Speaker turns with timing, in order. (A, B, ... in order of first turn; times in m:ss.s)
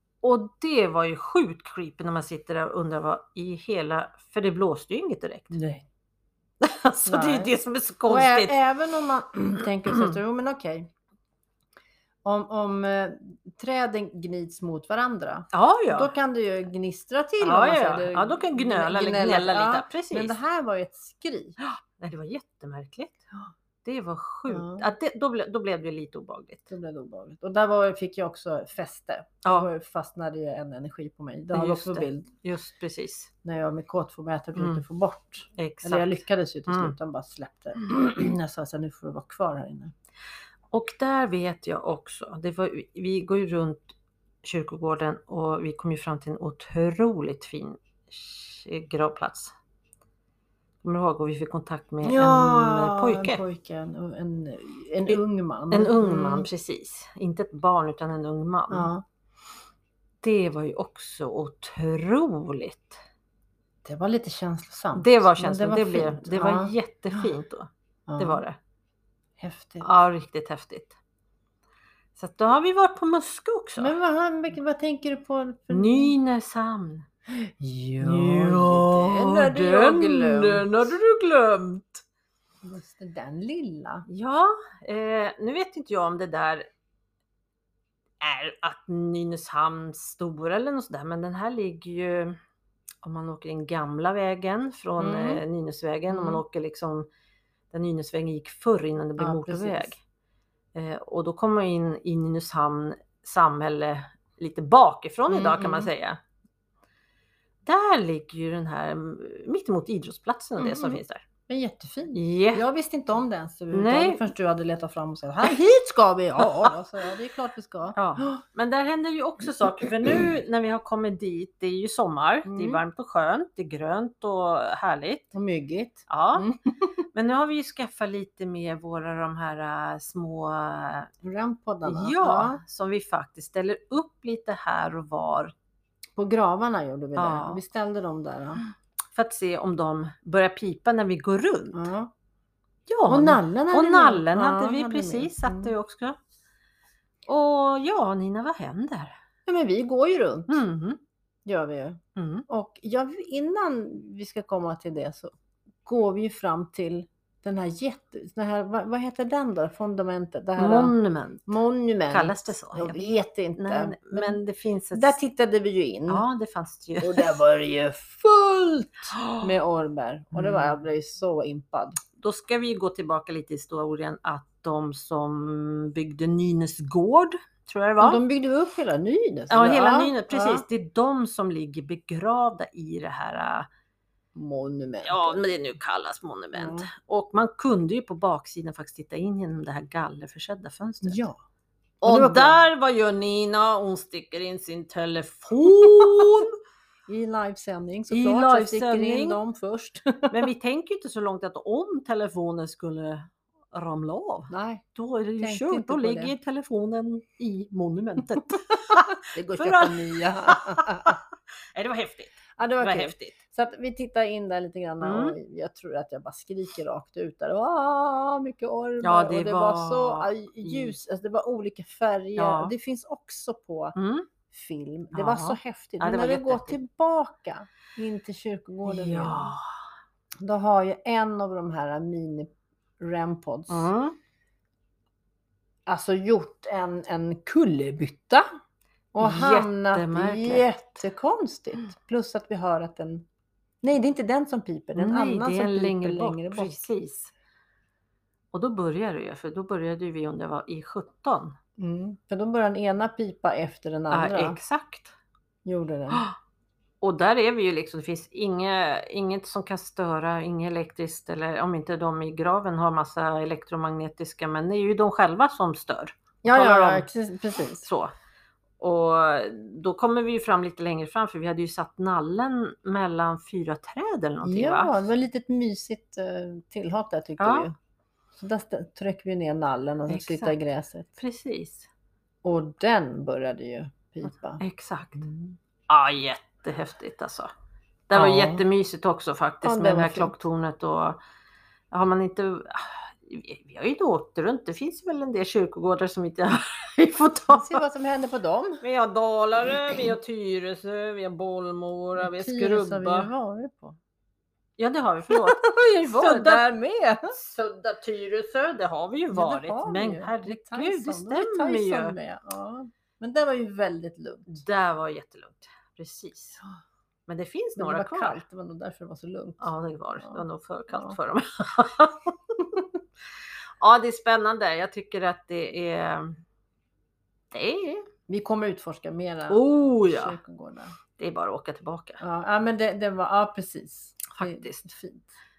0:00.2-0:05.6 A
0:05.5-0:05.9 B
0:06.6-0:08.5 A
0:07.0-0:07.5 B
0:08.1-0:10.9 B
0:12.2-0:21.6 B
0:15.5-0:16.1 A
0:17.4-0:20.4 A
0:21.6-0:23.2 A
0:23.8-0:26.7 A
0:24.5-0:24.9 B
0:26.7-0:32.3 B
0:29.4-0:29.7 A
0:31.5-0:33.3 A
0:33.4-0:39.9 B
0:34.6-0:34.8 A
0:35.6-0:36.9 A
0:40.7-0:49.5 A
0:50.8-0:53.4 A
0:52.0-0:56.5 B
0:55.7-0:58.9 A
0:58.7-0:59.0 B
1:00.2-1:03.0 A
1:03.8-1:07.3 B
1:04.9-1:08.6 A
1:08.1-1:08.4 B
1:09.4-1:09.9 B
1:09.8-1:10.9 A
1:12.2-1:14.0 A
1:13.8-1:16.1 B
1:15.7-1:17.0 A
1:17.3-1:20.9 B
1:18.0-1:22.0 A
1:22.6-1:24.0 B
1:24.1-1:26.6 A
1:28.2-1:32.4 A
1:33.0-1:37.1 A
1:35.0-1:35.4 B
1:36.1-1:36.4 B
1:37.7-1:40.0 A
1:39.2-1:39.9 B
1:40.7-1:46.2 A
1:45.3-1:45.9 B
1:47.6-1:51.2 A
1:50.6-1:58.4 B
1:52.1-1:52.6 A
1:53.7-1:54.3 A
1:56.4-1:56.7 A
1:58.0-2:05.3 A
2:02.4-2:02.8 B
2:05.3-2:07.0 B
2:06.1-2:06.5 A
2:07.1-2:11.1 A
2:11.2-2:12.6 B
2:11.8-2:15.5 A
2:16.2-2:18.7 B
2:17.2-2:17.6 A
2:19.1-2:21.8 A
2:21.7-2:22.1 B
2:22.9-2:26.2 A
2:23.1-2:25.7 B
2:27.3-2:29.2 A
2:29.4-2:30.6 B
2:30.5-2:31.0 A
2:31.4-2:35.3 B
2:32.2-2:32.4 A
2:35.8-2:40.9 B
2:40.6-2:41.5 A
2:41.4-2:44.4 B
2:42.1-2:45.2 A
2:44.9-2:46.2 B
2:46.1-2:47.3 A
2:47.0-2:52.0 B
2:49.1-2:49.5 A
2:50.3-2:50.7 A
2:52.2-2:58.2 A
2:58.0-3:00.6 B
2:59.5-3:03.7 A
3:04.3-3:05.4 B
3:05.0-3:11.2 A
3:06.5-3:06.9 B
3:11.0-3:11.4 B
3:12.0-3:16.6 A
3:12.0-3:12.6 B
3:17.1-3:20.4 B
3:18.1-3:19.4 A
3:20.3-3:31.2 A
3:24.5-3:24.8 B
3:25.4-3:26.3 B
3:28.9-3:31.2 B
3:31.7-3:33.4 A
3:32.6-3:44.0 B
3:35.0-3:35.4 A
3:39.0-3:40.9 A
3:42.4-3:42.7 A
3:43.9-3:44.3 A
3:44.5-3:49.5 B
3:45.1-3:46.8 A
3:48.8-3:49.6 A
3:50.4-3:53.9 B
3:53.7-3:54.2 A
3:55.9-3:58.4 B
3:59.1-4:03.3 B
3:59.2-4:00.7 A
4:03.8-4:06.8 B
4:04.9-4:07.3 A
4:08.5-4:11.6 A
4:11.8-4:14.6 B
4:14.1-4:15.1 A
4:15.6-4:16.2 B
4:16.1-4:16.4 A
4:17.0-4:27.1 A
4:26.4-4:27.9 B
4:27.8-4:28.1 A
4:28.8-4:34.9 A
4:34.4-4:37.7 B
4:37.4-4:37.7 A
4:38.4-4:41.1 B
4:40.1-4:40.6 A
4:41.2-4:41.9 A
4:42.4-4:44.6 B
4:44.6-4:47.5 A
4:48.1-4:51.2 A
4:48.1-4:48.6 B
4:49.6-4:50.4 B
4:51.9-4:57.8 A
4:57.5-4:58.8 B
4:58.8-5:03.3 A
5:02.2-5:04.0 B
5:04.8-5:06.6 A
5:05.3-5:07.3 B
5:07.3-5:12.1 A
5:09.3-5:14.6 B
5:14.5-5:16.6 A
5:17.3-5:18.4 A
5:17.8-5:21.2 B
5:19.6-5:22.6 A
5:23.8-5:26.4 A
5:27.5-5:28.1 A
5:28.3-5:31.0 B
5:29.5-5:30.4 A
5:31.2-5:32.2 A
5:32.2-5:35.3 B
5:34.3-5:34.9 A